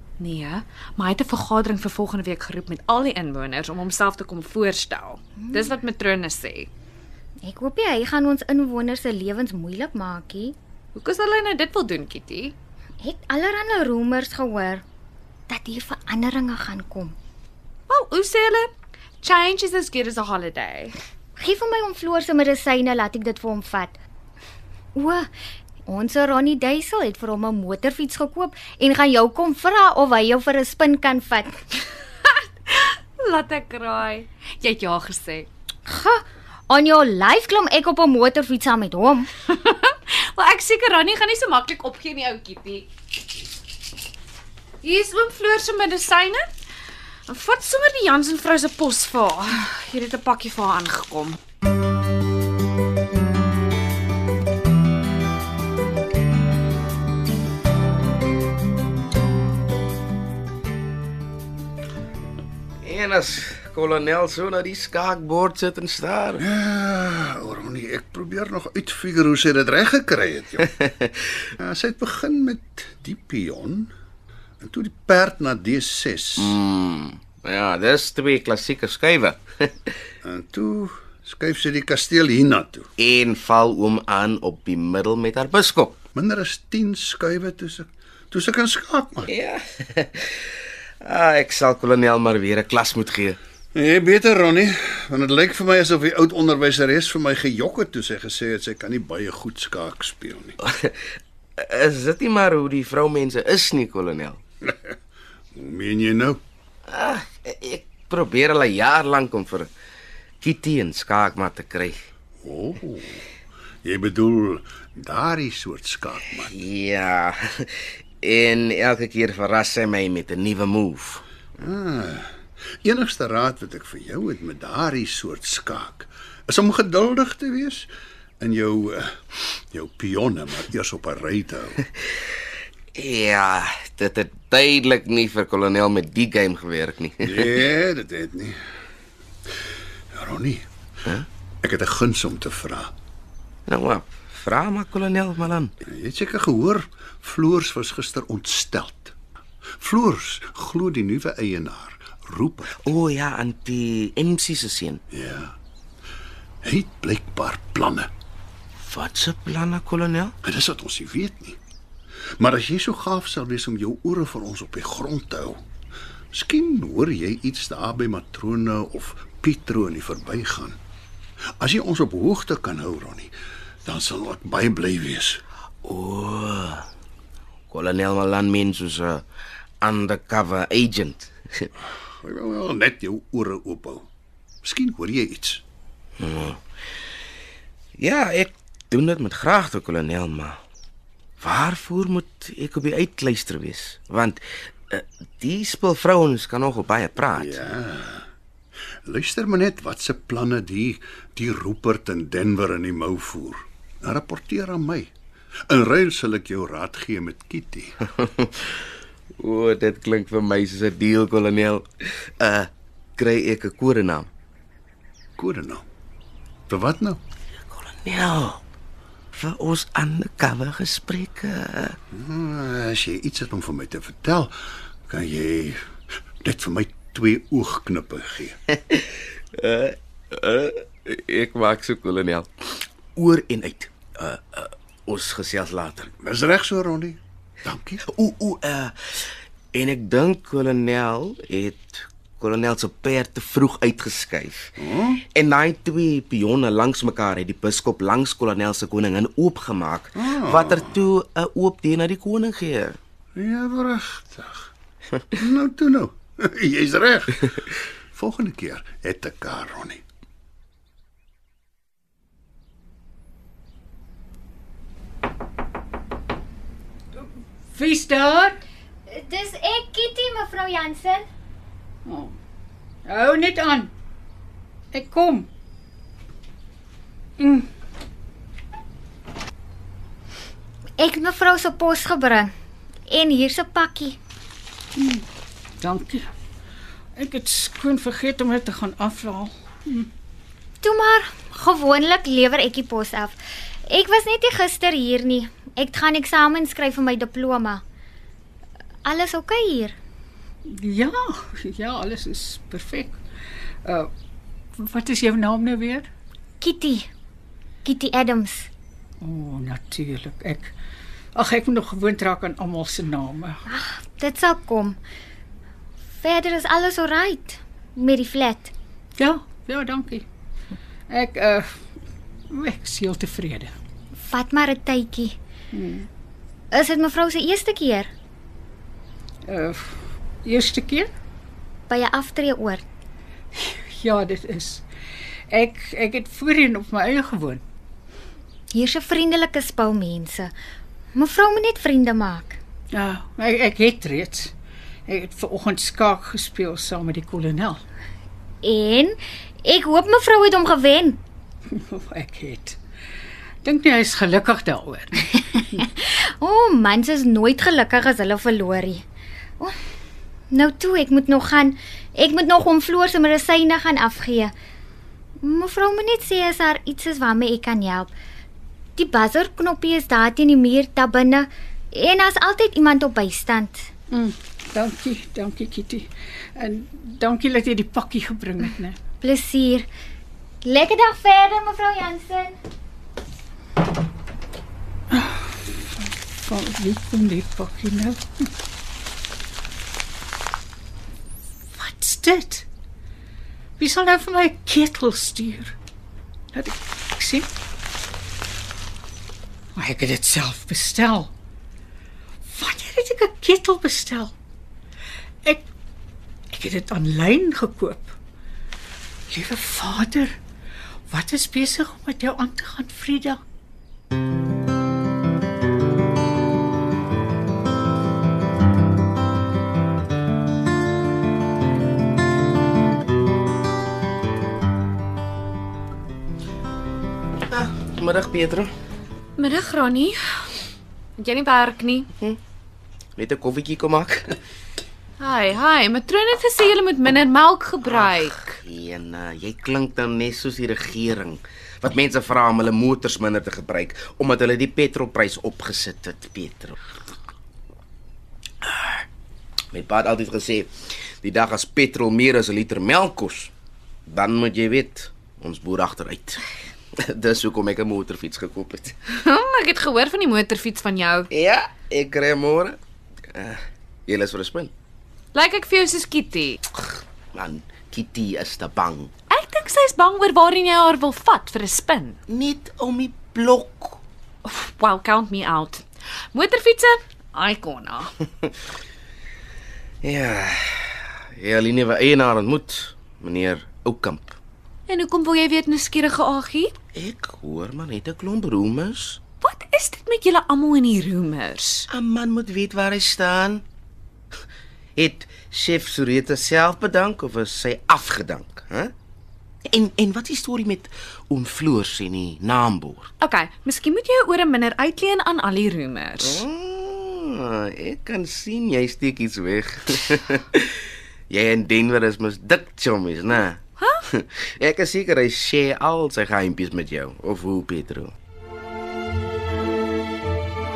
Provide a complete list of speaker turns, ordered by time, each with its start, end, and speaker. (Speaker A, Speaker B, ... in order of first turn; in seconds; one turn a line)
Speaker A: 0.2-6.7
Speaker B: 5.4-5.7
Speaker B: 7.4-10.6
Speaker A: 10.9-12.5
Speaker B: 13.0-14.8
Speaker B: 15.5-17.1
Speaker A: 17.9-18.7
Speaker A: 19.2-20.9
Speaker B: 21.4-24.0
Speaker B: 24.9-25.3
Speaker B: 25.9-31.6
Speaker A: 32.3-35.5
Speaker B: 35.9-39.3
Speaker A: 39.5-42.9
Speaker A: 44.8-46.5
Speaker A: 47.3-51.4
Speaker C: 62.8-66.4
Speaker D: 66.4-70.7
Speaker D: 71.5-73.9
Speaker D: 74.6-76.5
Speaker C: 76.4-79.7
Speaker D: 80.2-82.9
Speaker C: 83.0-86.0
Speaker D: 86.1-89.3
Speaker C: 89.3-90.4
Speaker C: 91.0-93.4
Speaker D: 93.7-100.6
Speaker C: 100.7-100.9
Speaker C: 101.6-104.4
Speaker D: 104.7-104.9
Speaker D: 105.5-106.4
Speaker C: 106.9-109.7
Speaker C: 110.4-112.0
Speaker D: 112.4-113.2
Speaker D: 113.8-116.5
Speaker C: 116.5-121.2
Speaker D: 121.6-131.8
Speaker C: 132.9-137.4
Speaker D: 137.2-138.6
Speaker D: 140.1-140.7
Speaker D: 141.6-142.9
Speaker C: 143.7-145.7
Speaker D: 145.8-149.1
Speaker D: 149.8-152.9
Speaker C: 152.8-155.0
Speaker D: 155.1-155.6
Speaker D: 156.6-158.1
Speaker C: 158.8-160.3
Speaker D: 160.4-161.6
Speaker D: 162.4-165.6
Speaker D: 166.3-170.8
Speaker D: 171.6-173.3
Speaker D: 173.8-175.4
Speaker C: 175.8-176.8
Speaker C: 177.7-179.2
Speaker C: 179.8-181.7
Speaker D: 182.2-184.1
Speaker D: 184.6-185.6
Speaker C: 186.2-186.6
Speaker C: 188.0-190.6
Speaker C: 191.4-197.6
Speaker D: 197.3-198.3
Speaker D: 199.0-205.1
Speaker D: 205.7-207.9
Speaker C: 208.2-208.7
Speaker C: 209.4-214.3
Speaker D: 215.4-215.8
Speaker D: 216.7-217.2
Speaker C: 217.7-218.6
Speaker C: 219.3-221.9
Speaker D: 222.1-225.8
Speaker D: 226.4-228.6
Speaker C: 228.9-232.5
Speaker C: 233.2-236.1
Speaker D: 236.2-238.0
Speaker C: 238.1-244.7
Speaker D: 244.8-245.2
Speaker C: 245.3-253.0
Speaker D: 250.2-250.9
Speaker D: 253.3-254.7
Speaker D: 255.3-260.0
Speaker E: 267.7-268.6
Speaker B: 269.1-271.3
Speaker E: 272.1-272.3
Speaker E: 273.1-273.9
Speaker E: 274.9-275.5
Speaker E: 277.4-277.7
Speaker B: 281.0-282.5
Speaker B: 283.1-284.2
Speaker E: 285.0-285.2
Speaker E: 285.8-286.3
Speaker E: 287.1-290.1
Speaker B: 290.8-297.8
Speaker B: 299.0-299.9
Speaker E: 300.7-303.2
Speaker E: 303.8-304.1
Speaker E: 304.8-306.1
Speaker B: 306.6-307.1
Speaker B: 307.8-308.7
Speaker E: 309.2-310.7
Speaker E: 311.3-313.6
Speaker B: 313.7-315.0
Speaker B: 316.2-318.7
Speaker E: 319.2-320.2
Speaker E: 321.1-321.7
Speaker E: 322.5-323.7
Speaker B: 324.2-325.4
Speaker E: 325.7-326.1
Speaker B: 326.7-328.1
Speaker E: 329.4-331.1
Speaker B: 331.9-332.8
Speaker E: 333.5-334.8
Speaker E: 335.5-337.6
Speaker B: 338.7-340.5
Speaker B: 341.1-342.6
Speaker E: 342.9-344.5
Speaker E: 345.1-347.8
Speaker B: 348.6-351.2
Speaker E: 351.7-352.8
Speaker E: 353.6-355.8
Speaker B: 355.8-359.0
Speaker B: 360.5-364.5
Speaker B: 365.4-368.1
Speaker B: 369.0-373.9
Speaker E: 374.1-379.0
Speaker B: 379.2-379.9
Speaker B: 380.6-382.6
Speaker E: 385.1-388.5
Speaker E: 391.8-392.6
Speaker E: 393.8-395.7
Speaker E: 396.5-397.5
Speaker E: 399.7-401.3
Speaker E: 402.4-404.3
Speaker E: 406.5-408.1
Speaker E: 409.3-410.4
Speaker E: 411.1-413.4
Speaker C: 427.5-428.7
Speaker A: 429.4-430.2
Speaker A: 431.2-432.1
Speaker C: 433.2-434.4
Speaker A: 435.2-438.6
Speaker C: 437.9-446.7
Speaker C: 449.7-450.7
Speaker C: 451.2-453.5
Speaker C: 454.1-456.4
Speaker C: 457.0-458.9
Speaker A: 459.1-461.3
Speaker C: 461.3-462.8
Speaker C: 463.3-464.7
Speaker A: 465.3-466.6
Speaker C: 467.3-469.1
Speaker A: 469.3-472.2
Speaker C: 472.3-474.0
Speaker A: 474.4-478.1
Speaker C: 480.0-484.4
Speaker A: 484.9-486.7
Speaker C: 486.9-489.2
Speaker A: 489.4-491.9
Speaker C: 491.9-493.6
Speaker C: 495.0-498.9
Speaker C: 499.7-503.1
Speaker A: 503.2-506.4
Speaker C: 506.2-510.8
Speaker C: 511.3-518.1